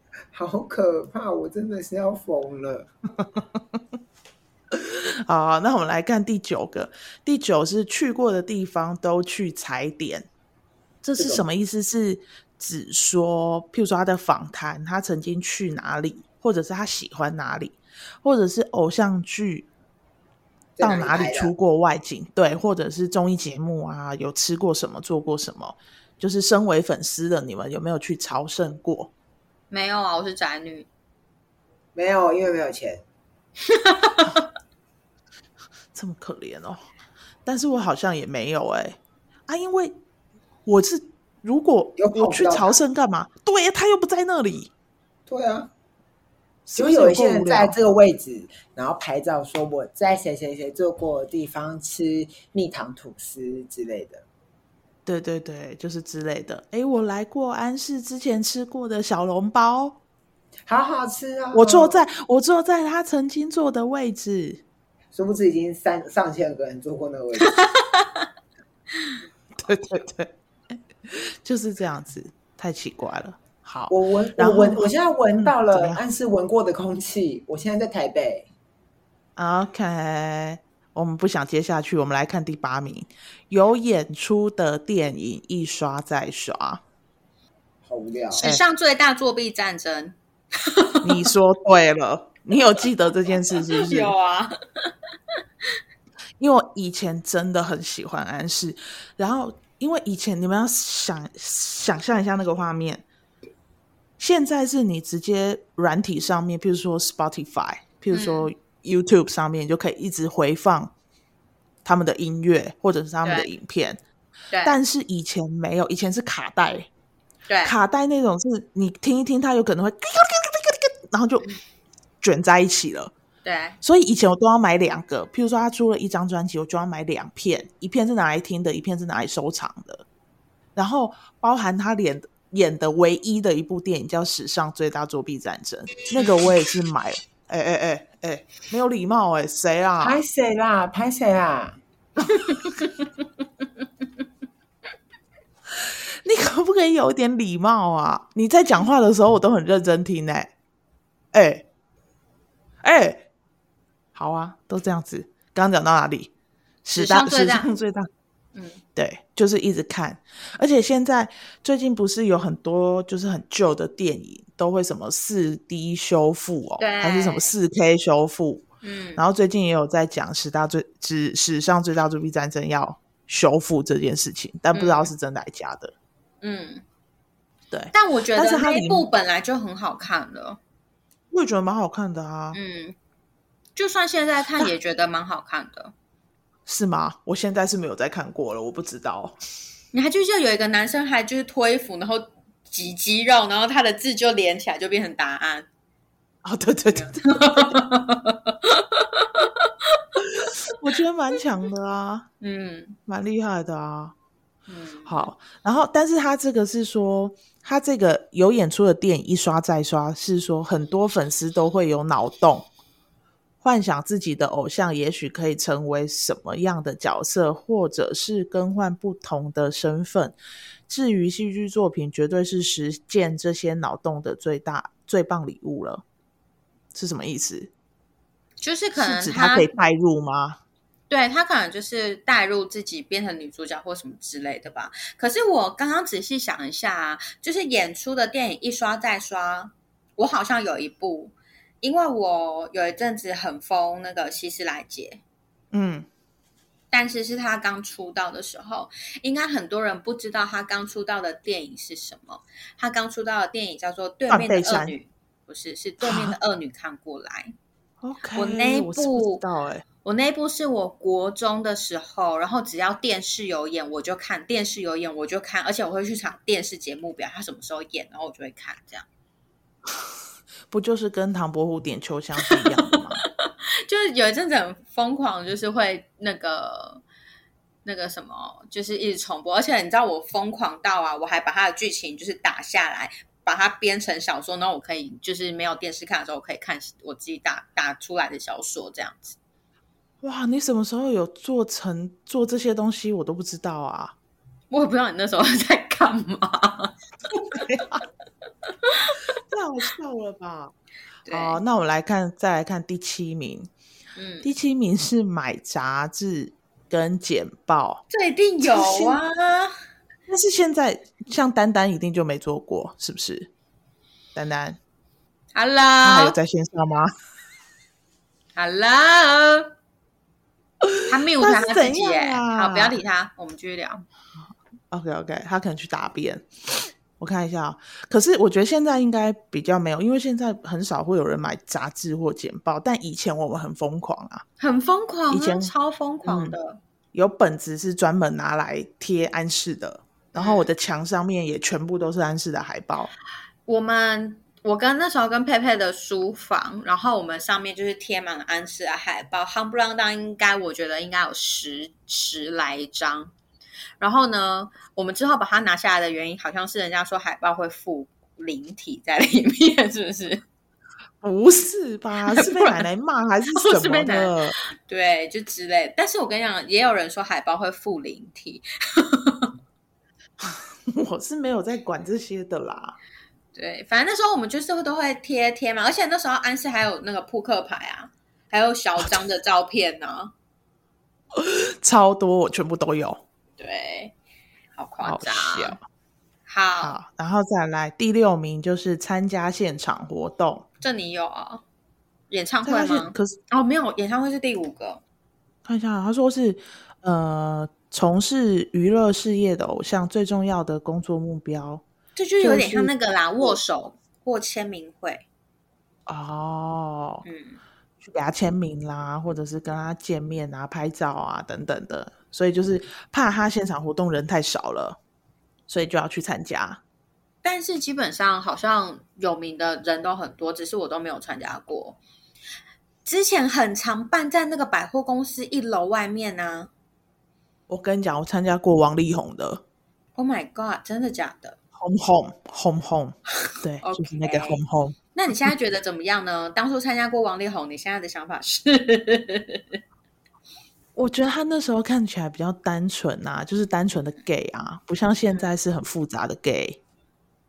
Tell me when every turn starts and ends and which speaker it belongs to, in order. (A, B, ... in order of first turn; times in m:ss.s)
0:00.3-0:02.9 A
0:04.7-0:10.3 B
0:11.0-0:19.7 B
0:11.2-0:11.4 A
0:20.8-0:21.5 A
0:20.8-0:29.1 B
0:29.7-0:30.9 C
0:32.0-0:33.0 A
0:33.7-0:34.4 C
0:35.9-0:36.8 B
0:37.5-0:39.9 B
0:40.7-0:44.7 B
0:42.0-0:42.8 A
0:45.3-0:45.7 A
0:46.7-0:47.8 B
0:46.8-0:54.2 A
0:55.1-1:00.0 B
1:00.7-1:02.0 A
1:01.5-1:04.6 B
1:05.1-1:07.6 A
1:07.5-1:08.3 C
1:09.6-1:16.0 B
1:13.9-1:18.5 A
1:19.4-1:26.8 B
1:27.8-1:28.4 A
1:28.3-1:31.3 C
1:31.0-1:34.1 B
1:33.5-1:34.9 C
1:36.4-1:43.0 B
1:44.2-1:50.9 B
1:48.1-1:48.5 C
1:51.8-1:54.0 B
1:54.5-1:54.8 C
1:54.6-1:56.9 B
1:57.5-1:57.8 C
1:57.6-2:01.5 B
2:02.2-2:03.1 B
2:03.4-2:03.8 C
2:03.8-2:10.0 B
2:10.8-2:20.2 B
2:20.0-2:21.8 A
2:22.5-2:22.8 C
2:25.8-2:30.5 B
2:31.3-2:31.6 B
2:32.8-2:33.2 B
2:34.2-2:36.3 B
2:36.8-2:38.1 B
2:37.0-2:37.7 C
2:38.6-2:38.8 C
2:39.0-2:48.6 B
2:46.8-2:47.5 C
2:48.8-2:49.2 C
2:49.2-2:55.9 B
2:54.7-2:55.1 C
2:56.4-2:56.8 C
2:57.7-2:59.1 B
2:57.9-3:00.6 C
3:01.3-3:02.6 B
3:02.5-3:03.0 C
3:03.8-3:05.9 C
3:06.7-3:09.4 B
3:09.9-3:15.7 C
3:16.4-3:17.8 B
3:16.9-3:20.7 C
3:20.2-3:22.3 B
3:22.4-3:23.0 C
3:23.1-3:24.2 B
3:24.7-3:25.3 C
3:25.1-3:32.7 B
3:33.6-3:40.4 B
3:40.9-3:46.0 B
3:46.9-3:47.7 B
3:48.6-3:49.7 C
3:49.0-3:50.6 B
3:51.1-4:05.2 C
4:05.7-4:06.1 B
4:06.9-4:17.5 C
4:14.3-4:14.9 B
4:16.0-4:16.4 B
4:18.0-4:19.8 B
4:18.4-4:19.4 C
4:20.0-4:29.0 C
4:30.7-4:33.2 B
4:33.2-4:37.0 C
4:37.8-4:49.4 C
4:50.2-4:54.2 B
4:54.7-4:57.0 C
4:57.5-4:58.0 B
4:58.8-4:59.3 C
4:59.5-5:00.7 B
5:01.3-5:01.6 C
5:01.3-5:03.7 B
5:04.2-5:04.5 C
5:04.4-5:08.0 B
5:08.1-5:09.7 C
5:08.6-5:09.2 B
5:10.3-5:13.5 B
5:14.4-5:14.8 B
5:15.5-5:16.4 C
5:16.0-5:17.1 B
5:18.6-5:19.7 C
5:20.8-5:23.0 B
5:21.1-5:24.0 C
5:24.9-5:34.4 B
5:34.6-5:36.8 C
5:35.3-5:35.7 B
5:36.2-5:36.6 B
5:37.1-5:43.1 B
5:40.4-5:40.7 C
5:43.7-5:53.3 C
5:54.0-6:00.4 C
6:01.2-6:04.6 B
6:02.2-6:02.9 C
6:03.5-6:09.5 C
6:10.4-6:13.0 B
6:13.5-6:20.3 C
6:21.3-6:23.2 B
6:23.6-6:24.2 C
6:24.8-6:25.8 C
6:25.0-6:25.8 B
6:26.5-6:27.0 C
6:26.8-6:30.6 B
6:30.8-6:31.6 C
6:32.3-6:35.0 C
6:32.6-6:33.4 B
6:35.6-6:41.8 B
6:42.2-6:45.2 C
6:42.4-6:42.9 B
6:46.1-6:47.2 B
6:47.2-6:47.6 C
6:48.0-6:55.0 B
6:55.7-6:56.8 B
6:57.4-7:02.0 C
7:03.0-7:06.7 C
7:07.7-7:09.6 B
7:10.2-7:11.6 C
7:11.8-7:15.0 B
7:13.8-7:14.6 C
7:15.1-7:19.8 C
7:21.0-7:26.8 B